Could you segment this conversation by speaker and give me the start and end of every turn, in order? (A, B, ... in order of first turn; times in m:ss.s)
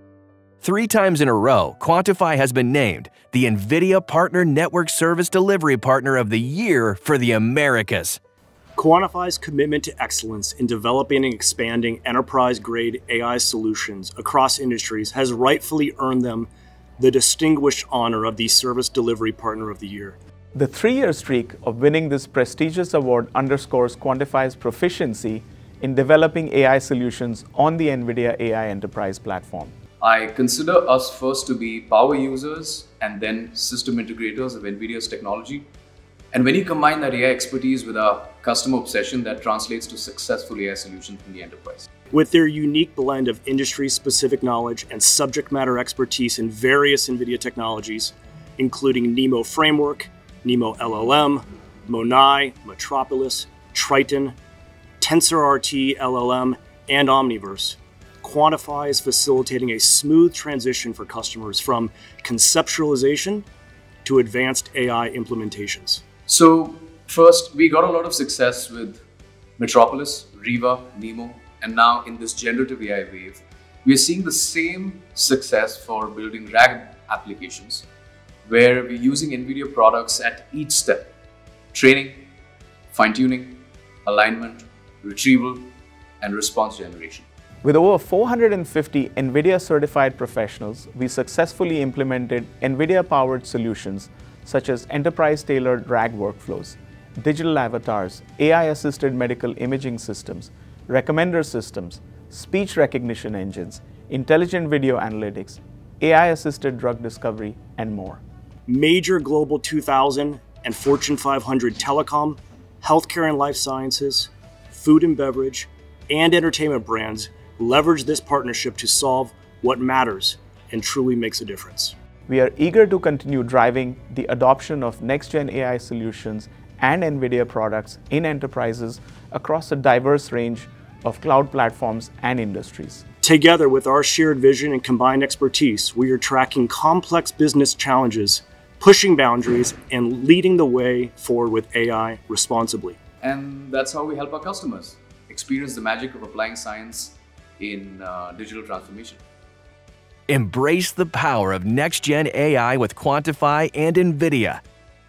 0:00.6-0:08.2 A
0:08.8-0:20.2 B
0:20.5-0:29.8 C
0:30.0-0:35.6 D
0:36.3-0:41.9 D
0:42.1-0:54.4 B
0:55.0-1:03.4 B
1:04.0-1:06.0 B
1:06.3-1:09.0 D
1:09.6-1:17.9 D
1:18.4-1:21.1 D
1:21.7-1:22.3 D
1:22.9-1:27.3 D
1:27.6-1:48.2 C
1:48.7-2:02.0 B
2:02.3-2:13.0 C
2:13.2-2:23.0 B
2:23.2-2:29.2 D
2:30.3-2:34.6 A